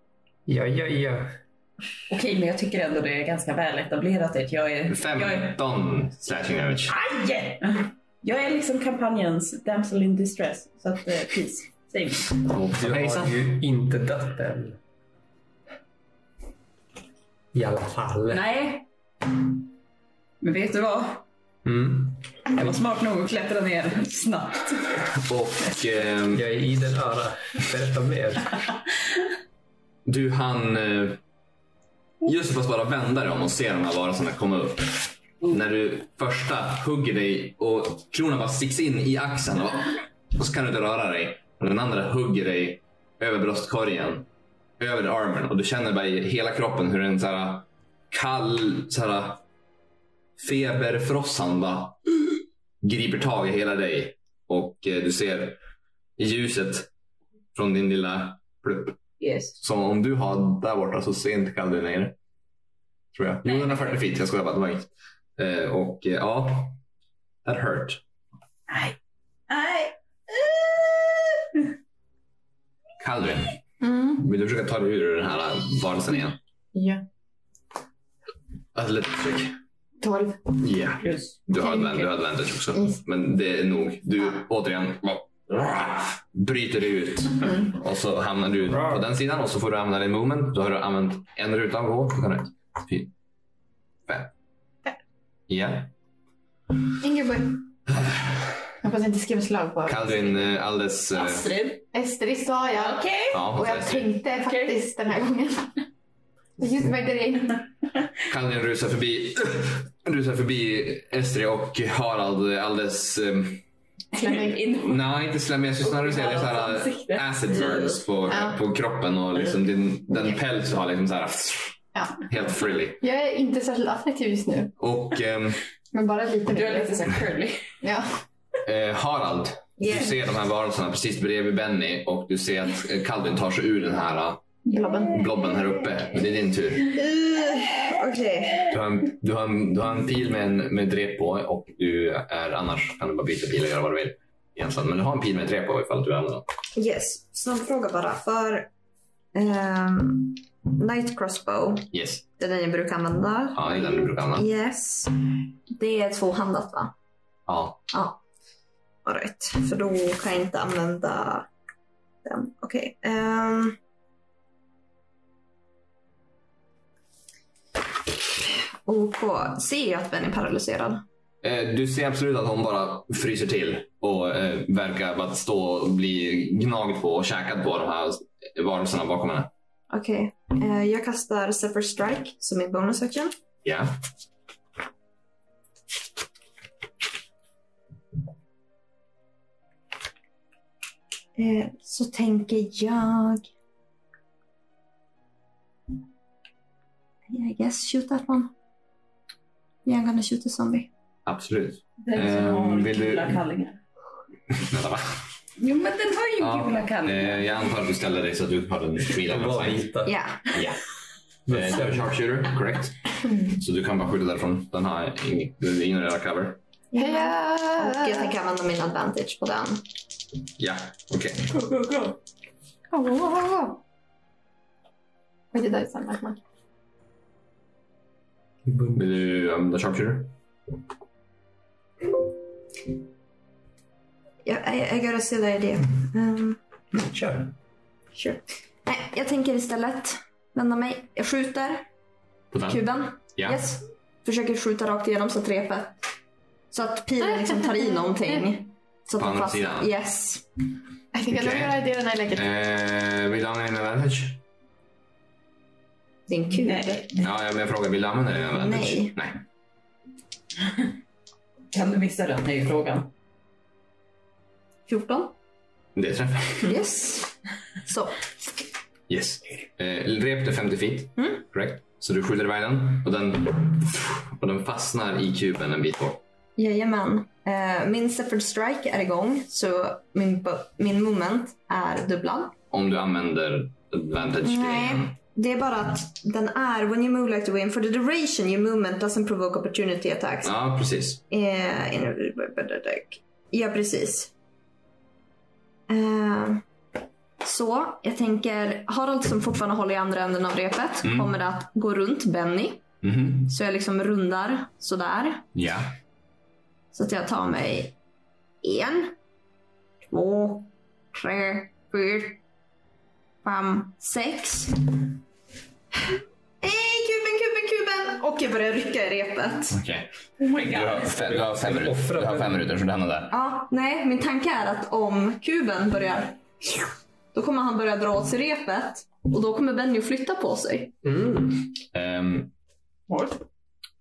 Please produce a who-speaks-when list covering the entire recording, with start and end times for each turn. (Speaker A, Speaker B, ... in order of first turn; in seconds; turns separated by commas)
Speaker A: 0.5-1.4, Speaker B: 2.1-5.6, Speaker C: 4.9-7.0, Speaker B: 6.9-12.4, Speaker C: 12.4-13.4, Speaker A: 12.7-14.8, Speaker A: 17.5-18.5, Speaker B: 18.3-18.9, Speaker B: 20.4-21.2, Speaker A: 21.6-22.2, Speaker B: 22.5-25.0, Speaker C: 25.2-26.5, Speaker A: 26.3-28.5, Speaker C: 30.1-31.2, Speaker C: 32.2-44.3, Speaker C: 44.8-49.4, Speaker C: 50.4-55.6, Speaker C: 56.2-56.9, Speaker C: 57.5-59.0, Speaker B: 59.2-59.6, Speaker C: 59.6-62.2, Speaker C: 63.1-66.8, Speaker B: 63.5-63.9, Speaker C: 67.5-68.0, Speaker B: 68.7-69.0, Speaker B: 69.5-71.7, Speaker C: 73.0-73.6, Speaker D: 73.8-74.1, Speaker C: 74.2-76.4, Speaker D: 76.7-77.0, Speaker C: 78.8-79.6, Speaker D: 80.0-80.5, Speaker C: 80.6-93.1, Speaker B: 81.0-81.9, Speaker D: 82.7-83.0, Speaker C: 95.5-95.9, Speaker D: 97.0-97.6, Speaker D: 98.8-100.4, Speaker C: 99.9-101.5, Speaker B: 101.1-101.8, Speaker D: 101.9-105.8, Speaker B: 102.8-103.5, Speaker C: 103.3-104.1, Speaker B: 104.3-104.8, Speaker D: 106.6-107.7, Speaker C: 108.3-113.6, Speaker D: 114.1-114.6, Speaker B: 114.2-115.0, Speaker C: 114.7-123.0, Speaker B: 115.8-118.0, Speaker D: 118.3-118.6, Speaker D: 122.0-122.3, Speaker D: 123.0-124.7, Speaker C: 124.8-125.6, Speaker D: 125.9-127.1, Speaker B: 126.5-127.7, Speaker D: 127.8-128.1, Speaker C: 128.6-134.4, Speaker E: 129.8-130.2, Speaker D: 134.7-135.2, Speaker C: 135.1-137.0, Speaker E: 136.9-138.7, Speaker C: 138.7-146.5, Speaker E: 146.8-148.7, Speaker E: 149.3-156.9, Speaker C: 151.9-152.2, Speaker C: 153.5-154.5, Speaker C: 157.5-157.8, Speaker E: 157.9-158.2, Speaker E: 159.1-161.5, Speaker E: 162.2-163.8, Speaker E: 168.8-171.0, Speaker C: 171.4-179.5, Speaker E: 179.9-183.3, Speaker C: 183.6-183.9, Speaker E: 191.4-193.5, Speaker E: 197.3-198.5, Speaker E: 199.8-200.9, Speaker C: 201.3-203.4, Speaker B: 202.0-203.8, Speaker C: 204.5-205.1, Speaker B: 205.6-207.5, Speaker C: 206.4-209.9, Speaker A: 209.3-210.2, Speaker E: 210.1-210.5, Speaker C: 210.5-210.8, Speaker A: 211.5-212.1, Speaker C: 211.5-216.6, Speaker E: 216.9-219.8, Speaker D: 216.9-218.3, Speaker C: 220.6-221.5, Speaker B: 221.5-222.2, Speaker D: 222.9-223.8, Speaker D: 225.5-226.4, Speaker A: 228.7-229.0, Speaker C: 228.9-230.3, Speaker E: 234.4-236.6, Speaker A: 236.9-237.5, Speaker E: 238.1-241.8, Speaker C: 242.5-242.8, Speaker E: 242.7-246.0, Speaker C: 243.3-243.6, Speaker E: 246.7-250.4, Speaker D: 247.2-248.4, Speaker C: 249.2-249.9, Speaker D: 251.1-252.4, Speaker C: 251.3-251.8, Speaker C: 252.3-254.4, Speaker E: 256.3-257.1, Speaker B: 256.6-257.3, Speaker C: 257.2-259.4, Speaker E: 258.5-259.1, Speaker B: 261.7-263.1, Speaker E: 264.9-265.3, Speaker C: 265.9-266.8, Speaker E: 266.6-268.3, Speaker C: 269.1-276.2, Speaker E: 271.2-271.4, Speaker E: 276.6-282.6, Speaker C: 282.7-285.1, Speaker E: 284.4-290.6, Speaker C: 290.4-291.2, Speaker E: 291.3-294.3, Speaker E: 295.9-296.6, Speaker E: 297.4-302.9, Speaker C: 301.0-301.3, Speaker C: 303.0-303.5, Speaker E: 303.4-305.5, Speaker C: 305.6-305.9, Speaker E: 306.9-307.9, Speaker E: 308.6-309.1, Speaker E: 310.1-312.4, Speaker E: 313.4-315.0, Speaker E: 316.6-319.8, Speaker C: 319.7-320.1, Speaker B: 320.4-321.4, Speaker C: 320.6-323.4, Speaker A: 321.3-322.6, Speaker E: 323.3-326.8, Speaker E: 327.3-330.9, Speaker A: 331.0-331.6, Speaker C: 331.9-332.5, Speaker B: 333.1-333.4